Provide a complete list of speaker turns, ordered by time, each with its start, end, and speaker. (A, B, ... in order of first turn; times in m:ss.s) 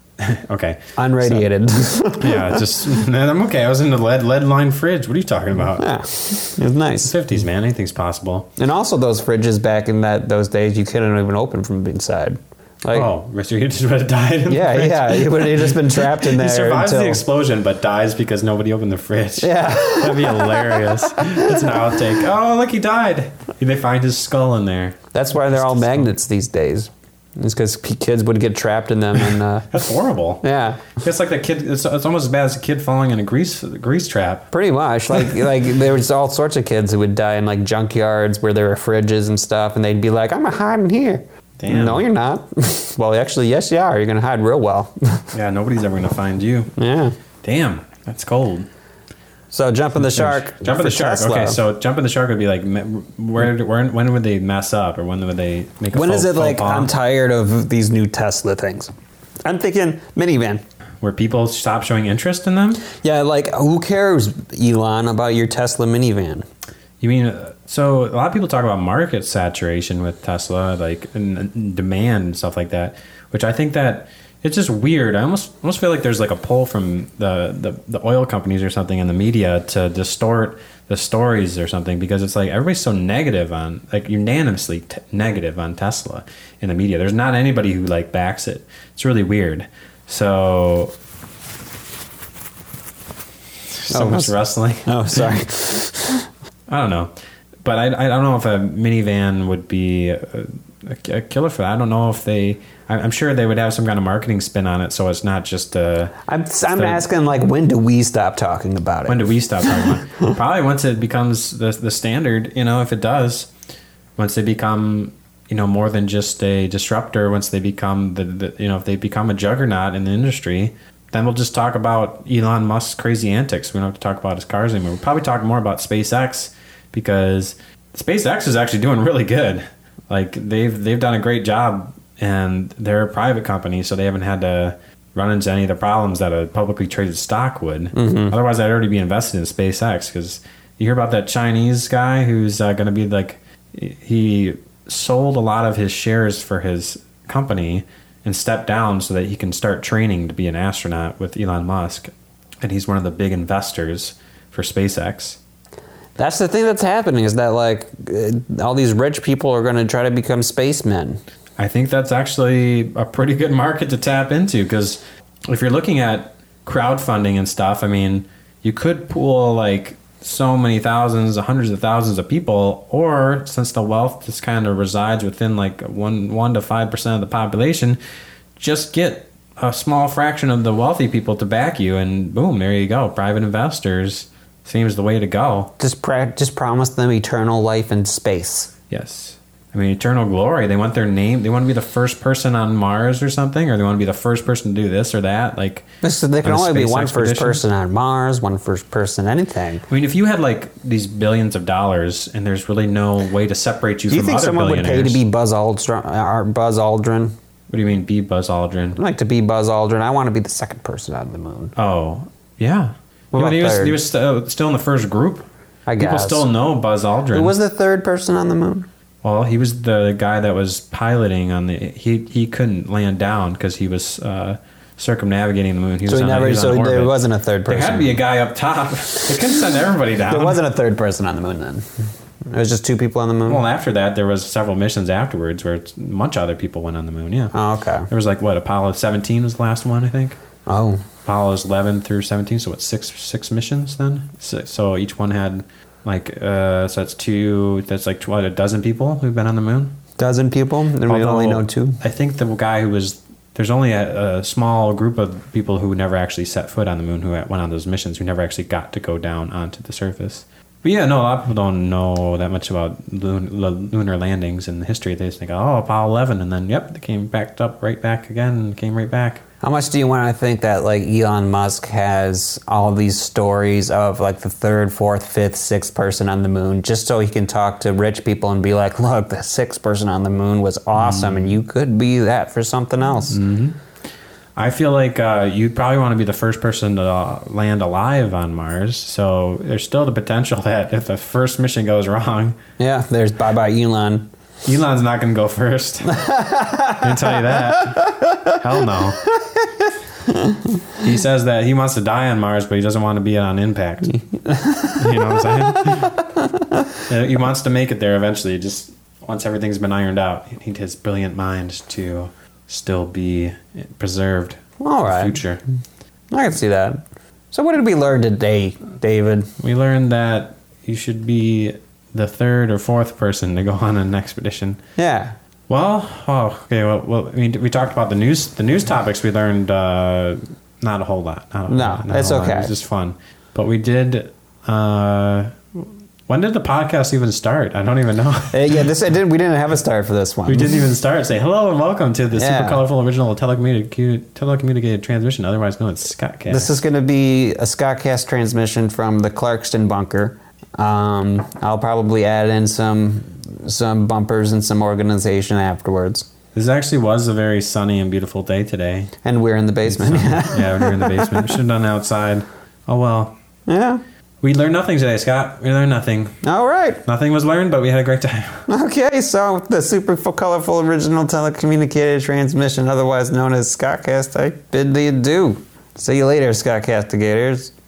0:00.2-0:01.5 A
0:01.0-0:02.7 B
0:02.2-0:05.9 A
0:05.8-0:07.1 B
0:07.0-0:08.5 A
0:08.6-0:13.1 B
0:12.9-0:25.0 A
0:14.5-0:17.2 B
0:19.4-0:22.0 B
0:25.1-0:29.7 B
0:25.5-0:26.1 A
0:29.7-0:34.5 A
0:30.4-0:30.9 B
0:34.5-0:45.3 B
0:41.6-0:42.0 A
0:45.3-0:46.7 A
0:46.8-0:47.2 B
0:47.4-0:48.7 A
0:49.5-0:51.6 B
0:50.0-0:56.9 A
0:55.9-0:58.9 B
0:59.4-1:00.6 B
1:01.0-1:02.8 A
1:02.9-1:06.5 B
1:07.0-1:30.9 A
1:33.7-1:35.3 A
1:33.9-1:36.3 B
1:36.7-1:37.1 A
1:37.6-1:46.1 A
1:46.3-1:50.3 B
1:46.7-1:47.0 A
1:49.1-1:53.5 A
1:54.2-2:35.4 A
2:18.0-2:18.3 B
2:36.2-2:41.2 B
2:41.6-2:58.0 A
2:58.6-3:05.7 A
3:05.8-3:08.7 B
3:08.9-3:15.8 A
3:16.0-3:19.8 B
3:16.4-3:17.6 A
3:19.9-3:25.2 A
3:24.1-3:27.3 B
3:27.7-3:29.0 A
3:29.0-3:31.7 B
3:31.8-3:35.4 A
3:33.3-3:34.0 B
3:35.9-3:36.4 B
3:36.0-3:37.5 A
3:37.3-3:38.9 B
3:39.2-3:50.6 A
3:46.1-3:48.2 B
3:50.3-3:51.9 B
3:52.5-3:53.6 B
3:53.4-3:57.5 A
3:57.5-3:58.1 B
3:58.1-4:00.4 A
4:00.7-4:01.0 B
4:01.2-4:10.0 A
4:10.2-4:12.0 B
4:11.0-4:29.4 A
4:29.6-4:43.4 B
4:41.0-4:41.6 A
4:43.3-4:43.8 A
4:44.6-4:52.6 A
4:52.8-4:54.3 B
4:54.6-4:56.3 A
4:56.1-4:58.6 B
4:57.0-4:59.2 A
4:59.6-5:00.6 B
5:01.0-5:04.2 A
5:04.3-5:06.9 B
5:05.0-5:06.2 A
5:07.0-5:15.6 A
5:14.8-5:15.4 B
5:16.3-5:19.5 B
5:19.6-5:24.8 A
5:25.0-5:25.4 B
5:25.7-5:38.9 A
5:31.7-5:32.7 B
5:38.5-5:40.8 B
5:40.4-5:46.7 A
5:42.3-5:42.8 B
5:46.5-5:56.3 B
5:56.5-5:59.1 A
5:59.2-6:01.6 B
5:59.9-6:03.3 A
6:03.7-6:04.0 B
6:04.4-6:06.4 A
6:06.4-6:07.0 B
6:07.0-6:08.6 A
6:08.7-6:17.7 B